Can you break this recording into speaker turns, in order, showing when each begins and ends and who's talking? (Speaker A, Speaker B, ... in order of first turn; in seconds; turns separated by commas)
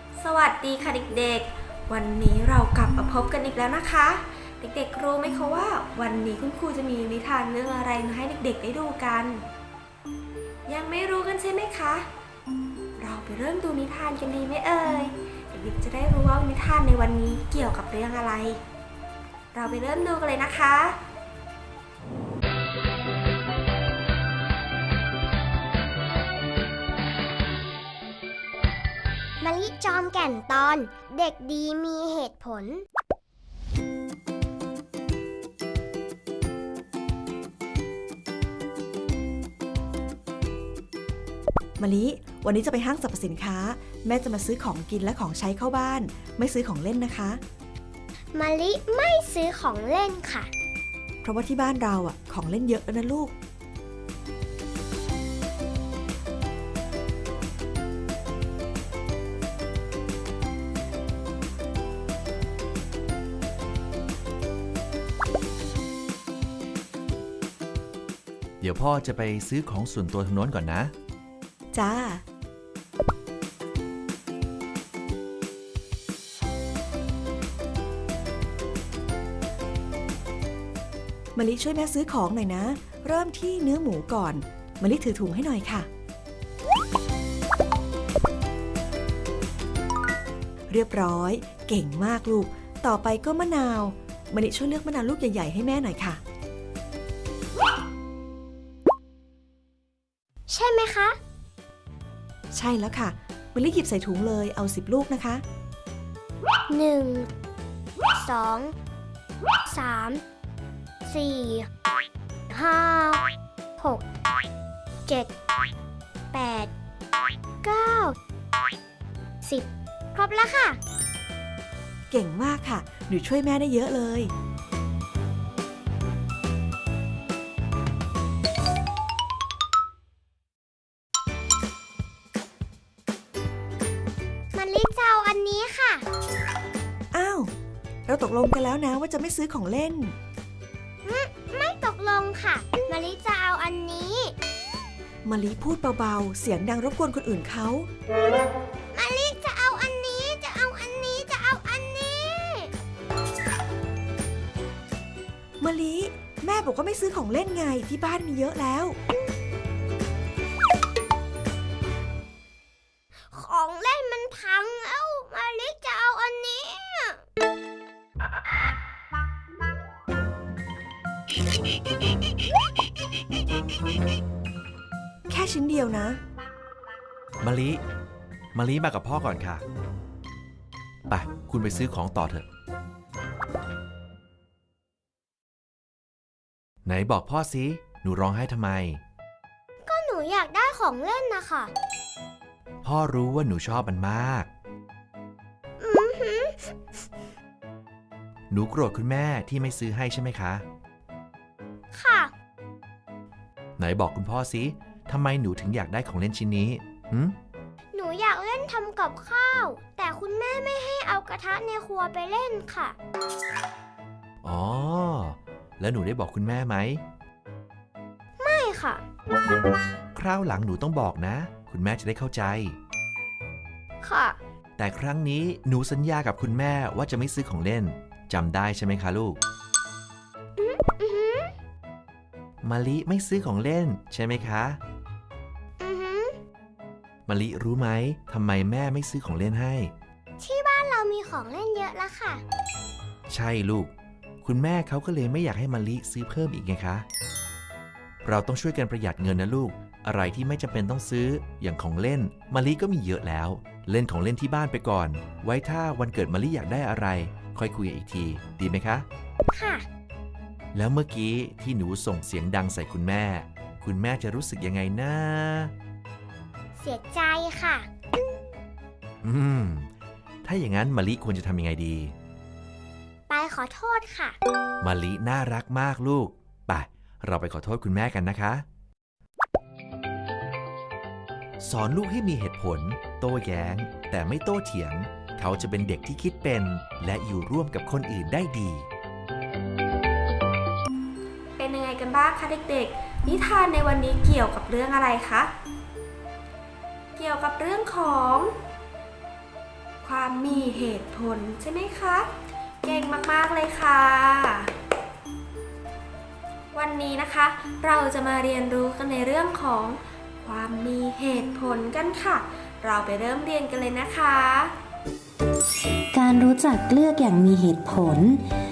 Speaker A: 0.2-9.4, Speaker A: 10.7-12.1, Speaker A: 13.0-18.6, Speaker A: 19.5-21.0, Speaker B: 29.4-32.8, Speaker C: 41.8-47.4, Speaker B: 48.3-50.5, Speaker C: 51.2-53.3, Speaker D: 68.6-70.9, Speaker C: 71.7-72.2, Speaker C: 81.3-85.9, Speaker C: 90.7-96.2, Speaker B: 100.5-101.2, Speaker C: 102.5-105.4, Speaker B: 106.7-107.3, Speaker B: 108.1-108.7, Speaker B: 109.6-110.2, Speaker B: 111.1-111.7, Speaker B: 112.5-113.2, Speaker B: 113.8-114.0, Speaker B: 115.1-115.3, Speaker B: 116.3-116.7, Speaker B: 117.6-118.1, Speaker B: 119.4-120.8, Speaker C: 122.1-124.3, Speaker B: 134.5-136.1, Speaker C: 137.1-137.5, Speaker C: 138.1-140.2, Speaker B: 141.0-144.3, Speaker C: 145.2-147.9, Speaker B: 148.9-152.7, Speaker C: 155.6-159.0, Speaker B: 163.3-167.2, Speaker C: 175.3-176.2, Speaker D: 177.4-177.8, Speaker D: 178.5-179.6, Speaker D: 181.1-182.4, Speaker D: 186.8-189.0, Speaker B: 189.8-191.7, Speaker D: 192.8-194.5, Speaker B: 195.8-196.8, Speaker D: 198.5-200.6, Speaker B: 201.9-202.3, Speaker D: 203.8-207.3, Speaker B: 207.9-212.9, Speaker D: 214.4-217.0, Speaker B: 218.4-219.0, Speaker D: 220.1-222.8, Speaker B: 224.0-224.4, Speaker D: 224.8-229.4, Speaker B: 230.6-231.5, Speaker D: 232.6-234.8, Speaker B: 235.8-236.4, Speaker D: 237.3-239.9, Speaker B: 240.4-242.4, Speaker D: 243.3-243.9, Speaker D: 244.4-247.1, Speaker D: 248.2-259.1, Speaker B: 259.5-259.9, Speaker D: 260.7-265.7, Speaker B: 266.8-267.9, Speaker D: 269.2-269.9, Speaker D: 270.4-272.1, Speaker B: 273.3-274.4, Speaker D: 274.8-278.6, Speaker D: 281.6-288.9, Speaker A: 291.6-295.5, Speaker A: 297.1-298.5, Speaker A: 300.0-302.3, Speaker A: 302.8-304.7, Speaker A: 306.7-314.7, Speaker E: 316.1-318.4